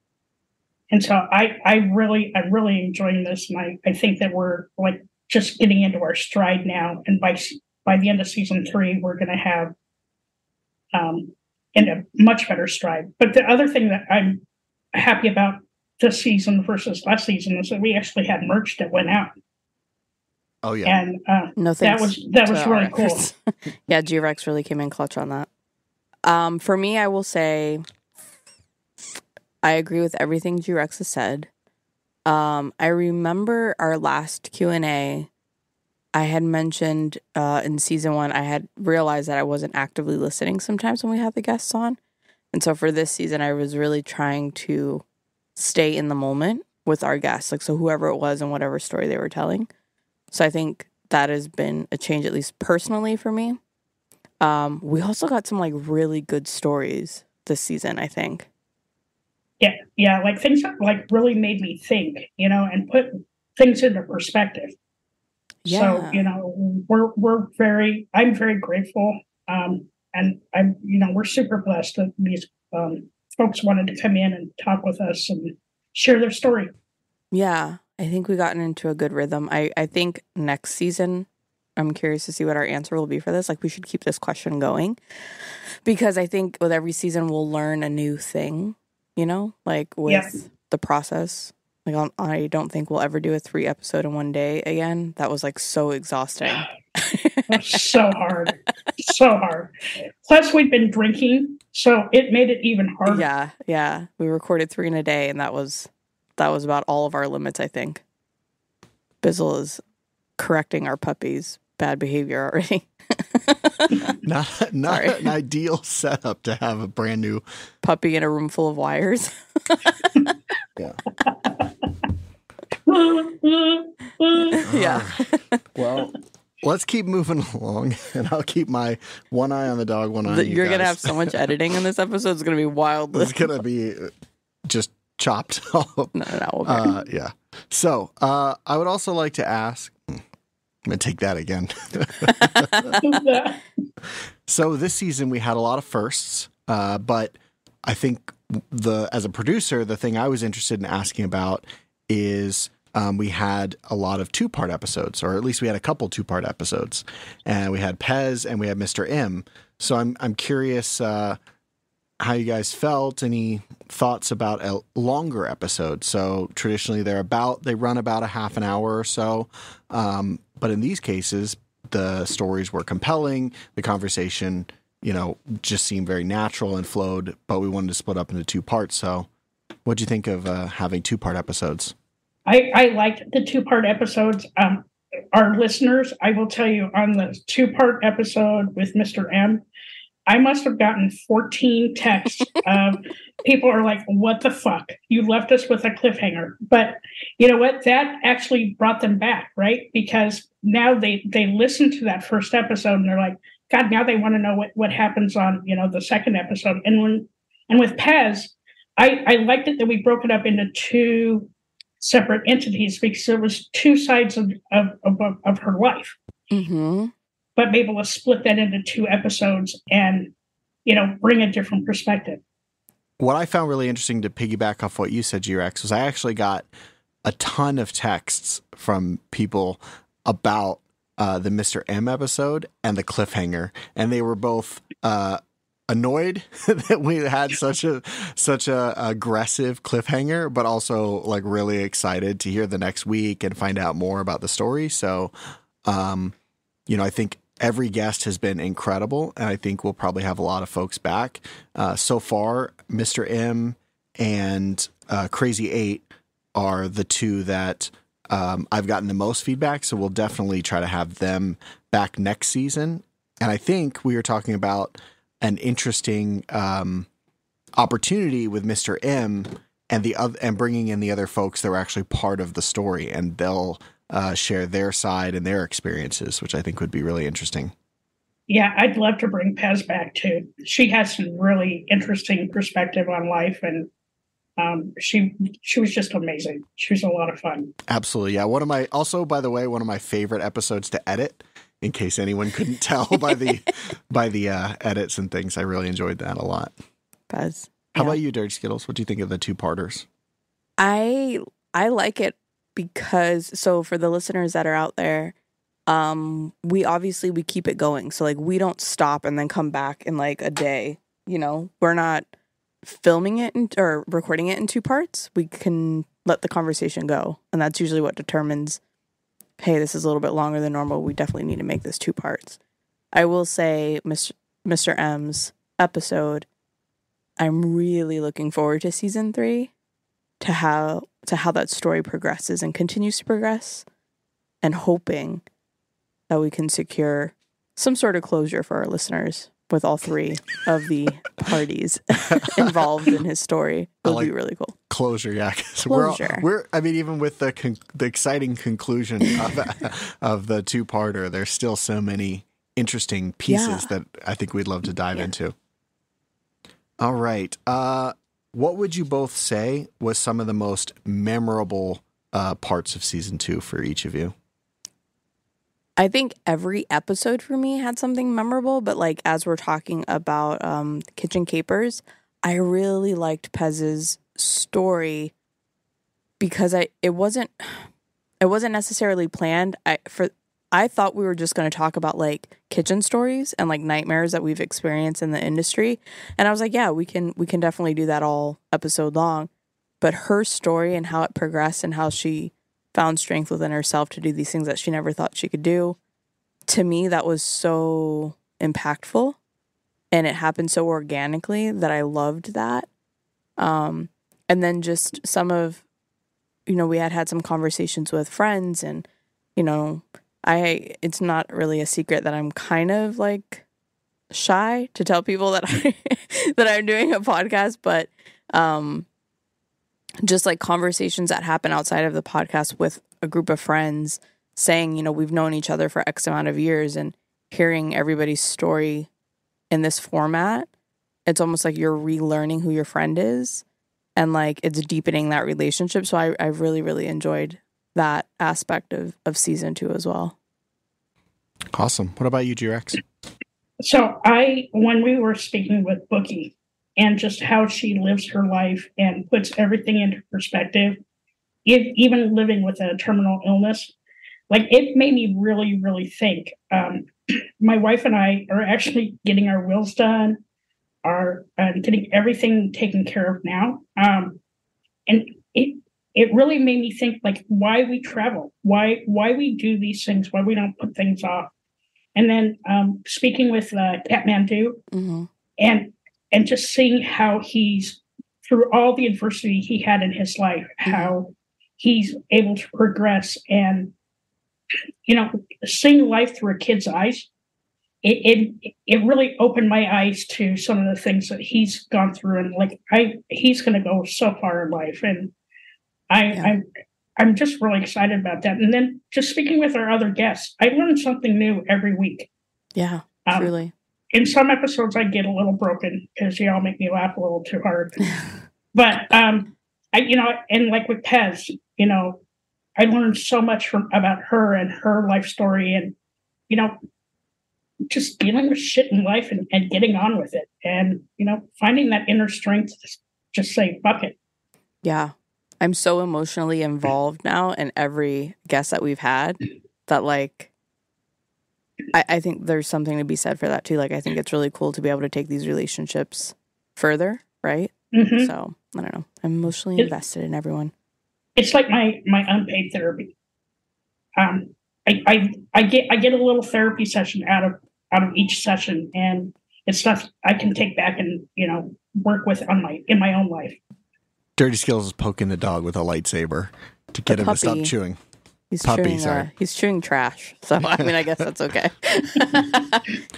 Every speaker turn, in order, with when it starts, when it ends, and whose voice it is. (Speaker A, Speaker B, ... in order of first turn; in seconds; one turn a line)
Speaker A: 0.9-9.7
Speaker A: 10.9-14.4
Speaker A: 14.9-19.3
Speaker B: 20.6-20.9
Speaker A: 20.9-23.2
Speaker C: 21.6-23.3
Speaker C: 23.9-25.5
Speaker C: 26.2-27.8
Speaker C: 29.6-31.5
Speaker C: 32.2-35.3
Speaker C: 36.1-42.0
Speaker C: 42.5-45.0
Speaker C: 45.5-49.7
Speaker C: 50.3-53.6
Speaker C: 54.4-58.5
Speaker A: 59.6-64.7
Speaker C: 65.6-66.3
Speaker A: 65.7-76.7
Speaker C: 77.3-81.3
Speaker C: 81.8-85.0
Speaker C: 85.8-97.8
Speaker A: 97.5-99.7
Speaker A: 100.2-103.2
Speaker C: 103.1-108.0
Speaker C: 109.2-109.8
Speaker C: 110.4-114.1
Speaker B: 114.2-117.4
Speaker C: 114.9-115.3
Speaker C: 117.8-120.3
Speaker A: 122.9-124.6
Speaker C: 124.5-125.6
Speaker B: 124.6-131.5
Speaker C: 130.3-133.5
Speaker B: 133.1-134.1
Speaker B: 134.7-140.2
Speaker C: 136.1-136.9
Speaker B: 140.8-142.9
Speaker C: 142.4-143.2
Speaker A: 143.0-143.6
Speaker B: 144.0-161.4
Speaker B: 162.2-179.3
Speaker B: 179.8-181.9
Speaker A: 182.4-189.6
Speaker A: 190.3-216.2
Speaker C: 216.5-217.1
Speaker A: 217.6-220.3
Speaker A: 220.8-222.4
Speaker B: 223.2-226.7
Speaker B: 227.2-245.3
Speaker B: 245.8-246.3
Speaker B: 246.9-267.1
Speaker B: 267.8-277.7
Speaker A: 278.5-283.9
Speaker A: 284.6-287.7
Speaker B: 287.9-296.7
Speaker C: 297.3-298.2
Speaker B: 297.9-300.1
Speaker C: 300.8-305.3
Speaker C: 305.9-312.3
Speaker C: 312.8-318.8
Speaker C: 319.6-322.6
Speaker C: 323.1-326.5
Speaker C: 327.4-329.7
Speaker C: 330.4-333.8
Speaker C: 334.6-335.4
Speaker C: 336.3-344.7
Speaker B: 342.3-342.7
Speaker B: 344.0-344.3
Speaker B: 344.9-355.6
Speaker C: 345.9-346.4
Speaker C: 353.5-353.9
Speaker B: 357.0-364.3
Speaker C: 366.0-375.3
Speaker C: 376.4-377.9
Speaker C: 378.4-389.5
Speaker C: 390.0-396.0
Speaker C: 396.7-399.4
Speaker C: 400.1-402.9
Speaker C: 403.6-405.8
Speaker C: 406.6-409.0
Speaker C: 409.6-413.6
Speaker C: 414.3-419.1
Speaker C: 420.2-429.1
Speaker C: 429.7-430.7
Speaker C: 431.2-433.6
Speaker C: 434.1-440.4
Speaker B: 441.7-443.0
Speaker A: 443.8-451.0
Speaker A: 451.6-453.9
Speaker A: 454.5-457.1
Speaker A: 457.6-460.4
Speaker A: 461.0-464.4
Speaker A: 465.1-471.5
Speaker A: 472.1-474.8
Speaker C: 474.9-475.3
Speaker A: 475.6-483.9
Speaker C: 480.8-481.1
Speaker A: 485.1-487.3
Speaker A: 488.0-495.3
Speaker A: 496.1-496.6
Speaker A: 497.2-502.3
Speaker C: 502.8-503.7
Speaker A: 503.2-503.5
Speaker A: 504.1-508.0
Speaker A: 508.7-512.2
Speaker A: 512.8-515.9
Speaker A: 516.5-516.8
Speaker A: 517.9-524.1
Speaker C: 524.8-530.5
Speaker C: 531.9-540.7
Speaker A: 537.9-538.3
Speaker A: 541.4-543.1
Speaker A: 544.2-553.6
Speaker B: 554.4-558.0
Speaker C: 557.1-557.7
Speaker C: 558.5-562.9
Speaker B: 558.6-559.3